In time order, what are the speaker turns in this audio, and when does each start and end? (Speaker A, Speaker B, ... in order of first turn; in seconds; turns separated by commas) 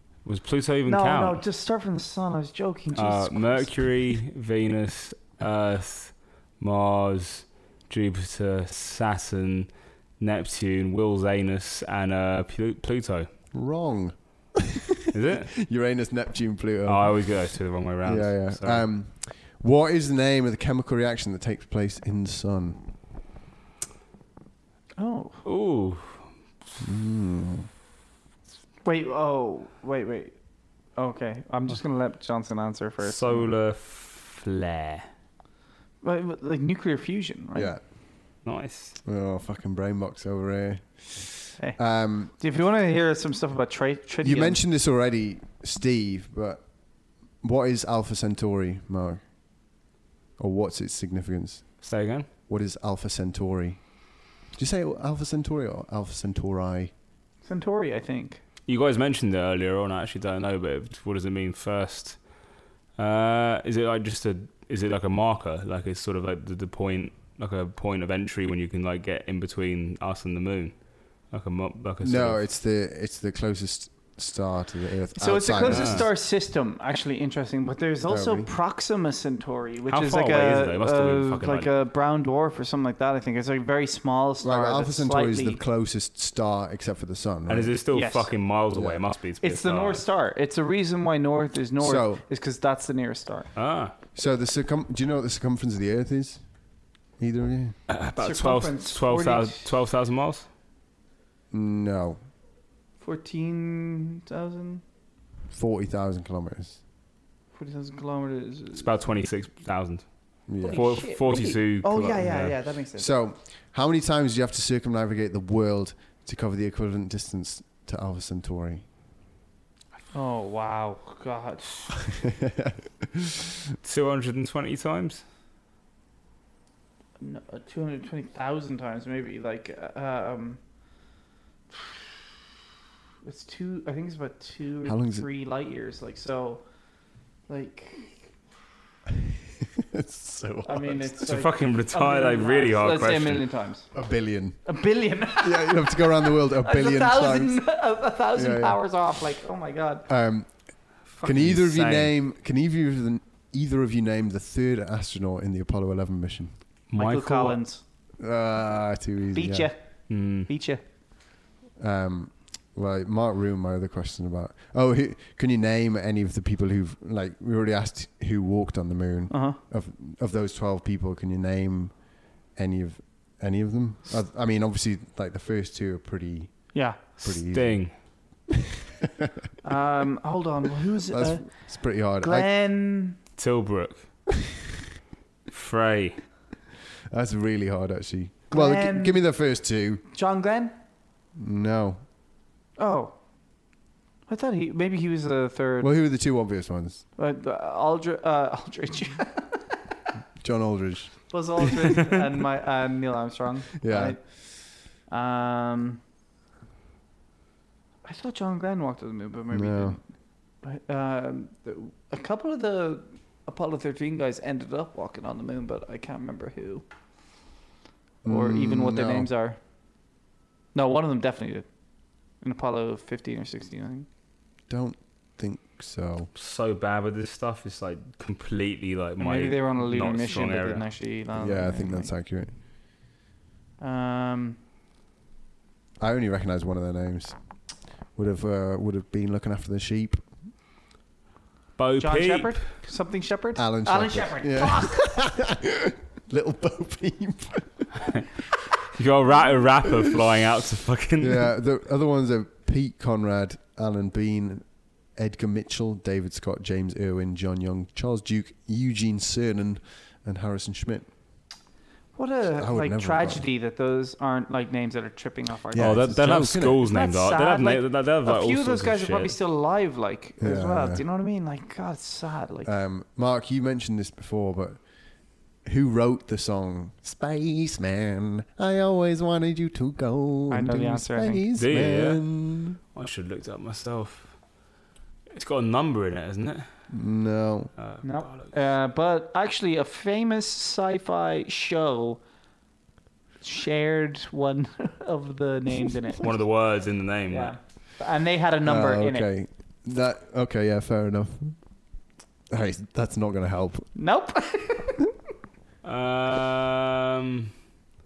Speaker A: 0.2-1.4, Speaker B: 0.9-3.7, Speaker A: 3.0-13.3, Speaker C: 13.5-17.1, Speaker A: 15.1-15.5, Speaker A: 16.9-18.8, Speaker C: 18.0-22.8, Speaker B: 25.0-25.4, Speaker A: 25.4-26.3, Speaker C: 26.8-27.7, Speaker B: 28.8-30.3, Speaker B: 31.0-33.5, Speaker A: 33.0-35.1, Speaker B: 36.0-37.7, Speaker C: 37.5-37.8, Speaker A: 38.5-39.0, Speaker C: 39.0-42.3, Speaker B: 42.4-44.6, Speaker C: 44.2-46.6, Speaker C: 47.4-49.2, Speaker C: 50.4-51.8, Speaker A: 51.8-52.3, Speaker C: 52.5-53.8, Speaker C: 54.6-56.9, Speaker B: 57.5-58.4, Speaker A: 58.7-62.2, Speaker A: 63.0-70.8, Speaker A: 71.3-72.4, Speaker C: 72.0-76.1, Speaker B: 75.2-85.6, Speaker A: 75.7-76.1, Speaker C: 78.1-78.5, Speaker A: 79.9-81.7, Speaker C: 84.4-87.7, Speaker A: 87.5-90.0, Speaker B: 87.9-88.3, Speaker C: 88.7-89.0, Speaker B: 89.4-93.5, Speaker C: 91.8-92.2, Speaker A: 93.6-93.9, Speaker C: 94.2-96.4, Speaker C: 97.2-97.8, Speaker A: 97.9-100.5, Speaker B: 98.2-99.7, Speaker C: 101.5-102.2, Speaker B: 103.0-104.8, Speaker C: 105.5-106.8, Speaker B: 107.5-108.9, Speaker A: 108.8-112.5, Speaker C: 110.5-110.8, Speaker B: 110.6-113.1, Speaker C: 113.0-118.8, Speaker B: 120.1-121.9, Speaker C: 122.1-123.7, Speaker A: 123.8-125.2, Speaker B: 127.2-130.6, Speaker B: 131.7-132.0, Speaker B: 133.2-136.6, Speaker C: 134.9-135.3, Speaker B: 137.5-138.2, Speaker C: 139.6-141.1, Speaker B: 140.7-143.9, Speaker A: 141.2-143.4, Speaker C: 143.9-144.6, Speaker B: 144.7-150.1, Speaker C: 145.4-147.6, Speaker C: 148.4-148.8, Speaker C: 150.1-150.5, Speaker A: 151.1-152.1, Speaker C: 151.2-156.5, Speaker A: 156.9-157.6, Speaker B: 157.0-157.8, Speaker C: 158.2-159.7, Speaker B: 159.3-160.8, Speaker A: 160.1-160.5, Speaker C: 161.8-172.0, Speaker B: 169.3-169.6, Speaker C: 172.5-178.1, Speaker B: 176.7-177.0, Speaker A: 177.2-177.9, Speaker B: 179.6-183.2, Speaker C: 181.1-182.5, Speaker A: 183.4-184.0, Speaker A: 185.5-186.2, Speaker C: 187.1-190.0, Speaker B: 188.5-189.2, Speaker B: 190.1-190.8, Speaker C: 191.4-192.0, Speaker B: 192.8-193.2, Speaker B: 194.3-195.9, Speaker C: 195.8-197.0, Speaker B: 197.2-199.8, Speaker C: 200.4-201.2, Speaker B: 201.3-204.3, Speaker C: 203.8-204.2, Speaker B: 205.1-206.0, Speaker B: 208.1-210.0, Speaker C: 209.5-210.0, Speaker B: 210.6-216.8, Speaker C: 218.2-219.3, Speaker B: 218.3-219.6, Speaker B: 220.8-221.7, Speaker B: 222.4-224.1, Speaker C: 224.7-226.3, Speaker A: 226.3-230.8, Speaker B: 229.2-232.1, Speaker C: 231.4-232.5, Speaker B: 233.8-234.6, Speaker C: 236.0-237.3, Speaker C: 238.2-240.2, Speaker A: 241.8-242.7, Speaker B: 242.0-245.2, Speaker C: 243.6-248.0, Speaker A: 249.0-251.5, Speaker C: 251.2-261.1, Speaker B: 262.2-266.1, Speaker C: 262.6-263.4, Speaker C: 265.7-266.8, Speaker A: 265.8-269.3, Speaker B: 266.8-272.7, Speaker C: 270.4-271.0, Speaker C: 272.6-274.8, Speaker C: 275.6-282.8, Speaker B: 280.5-281.4, Speaker A: 281.6-282.2, Speaker A: 282.9-284.4, Speaker A: 285.3-286.7, Speaker C: 286.9-287.7, Speaker A: 287.8-288.5, Speaker B: 288.0-292.2, Speaker B: 293.4-296.4, Speaker A: 296.2-297.6, Speaker B: 297.3-299.3, Speaker C: 298.6-301.6, Speaker C: 302.5-303.9, Speaker B: 303.9-305.1, Speaker A: 305.8-307.5